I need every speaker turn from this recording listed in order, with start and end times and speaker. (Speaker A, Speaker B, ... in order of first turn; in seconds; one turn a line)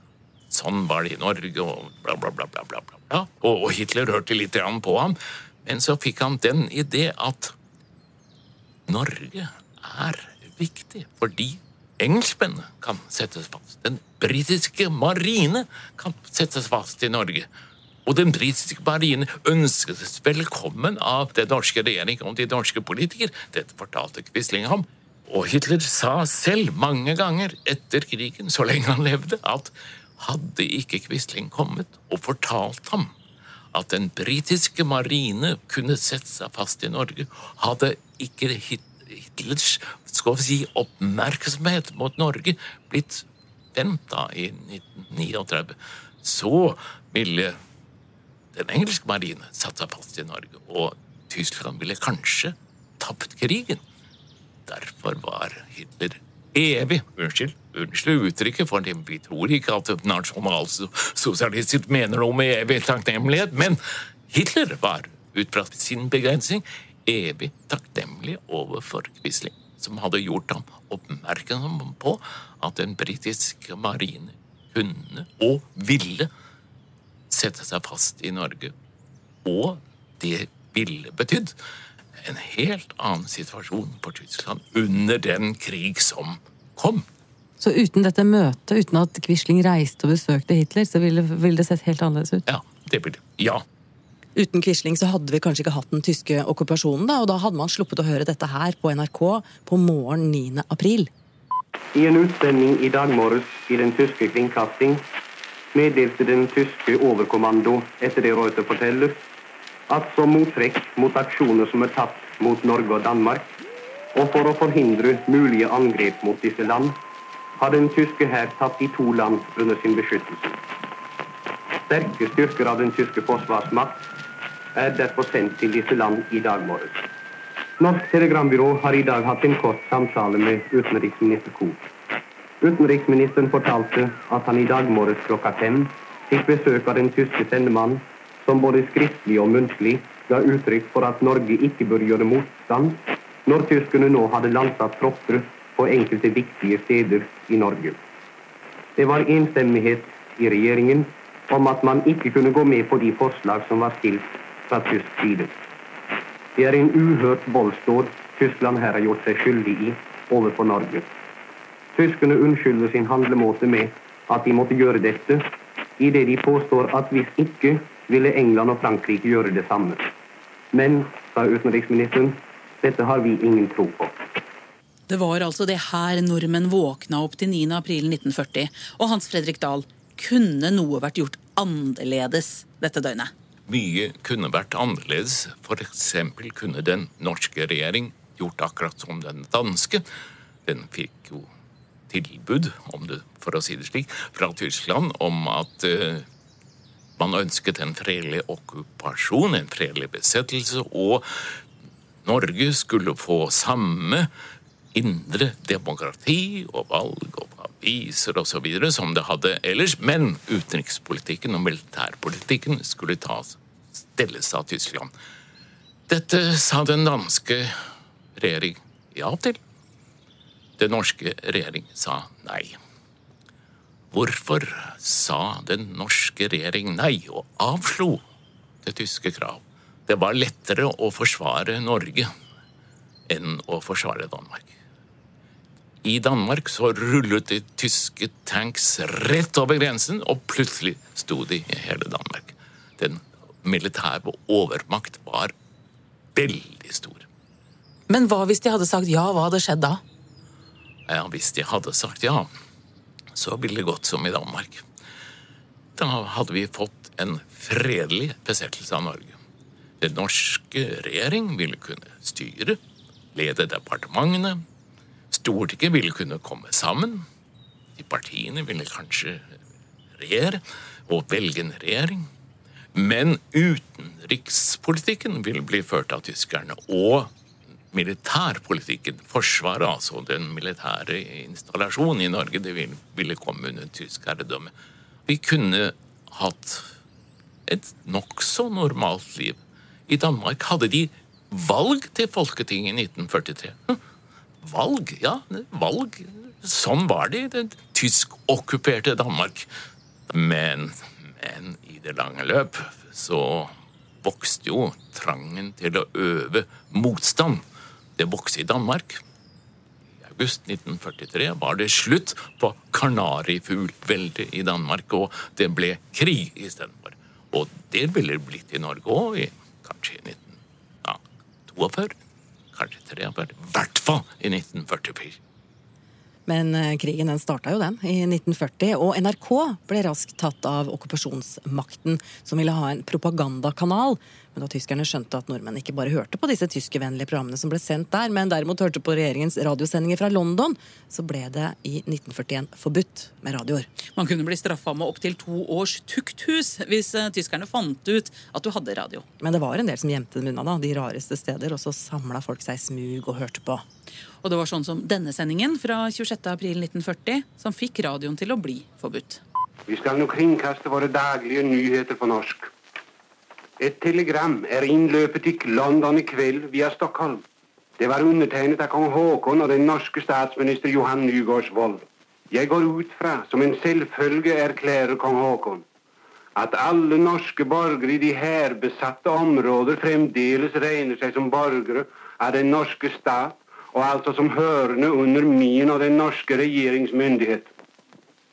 Speaker A: 0.5-7.5
Speaker A: 8.9-17.5
Speaker A: 18.1-33.1
Speaker A: 33.7-47.6
Speaker A: 48.5-53.8
Speaker A: 54.7-76.3
Speaker A: 77.3-78.7
Speaker A: 79.4-81.6
Speaker A: 82.2-87.1
Speaker B: 87.6-92.4
Speaker A: 92.5-93.7
Speaker B: 94.4-101.1
Speaker C: 101.9-105.0
Speaker C: 105.7-109.2
Speaker C: 109.9-113.5
Speaker C: 114.2-117.0
Speaker C: 117.6-120.6
Speaker C: 121.9-124.0
Speaker C: 124.8-127.0
Speaker C: 127.8-131.8
Speaker C: 132.6-148.0
Speaker C: 149.0-155.5
Speaker C: 156.6-161.1
Speaker C: 161.9-165.4
Speaker C: 166.0-170.0
Speaker C: 170.7-174.1
Speaker D: 175.1-183.3
Speaker A: 183.7-190.1
Speaker A: 190.7-191.5
Speaker A: 192.1-196.3
Speaker A: 197.2-201.5
Speaker A: 202.2-204.3
Speaker A: 204.9-215.1
Speaker A: 216.1-217.8
Speaker A: 218.4-219.6
Speaker A: 220.8-222.8
Speaker A: 224.1-228.2
Speaker A: 228.8-232.3
Speaker A: 233.3-234.7
Speaker A: 236.0-245.5
Speaker A: 246.3-247.3
Speaker D: 248.1-250.0
Speaker A: 251.1-252.5
Speaker A: 253.3-254.9
Speaker A: 255.9-259.4
Speaker A: 260.0-262.8
Speaker A: 263.3-264.6
Speaker A: 265.3-267.3
Speaker A: 267.9-269.6
Speaker A: 270.1-272.3
Speaker A: 272.9-277.3
Speaker A: 277.9-284.7
Speaker A: 285.3-286.9
Speaker A: 287.7-294.0
Speaker A: 294.6-299.7
Speaker A: 300.3-307.6
Speaker A: 308.2-309.2
Speaker A: 310.2-322.2
Speaker A: 322.7-325.4
Speaker B: 326.5-343.9
Speaker D: 344.1-349.2
Speaker B: 349.4-353.8
Speaker D: 354.4-359.4
Speaker E: 359.9-362.7
Speaker E: 363.8-367.4
Speaker E: 368.0-375.8
Speaker E: 376.6-387.7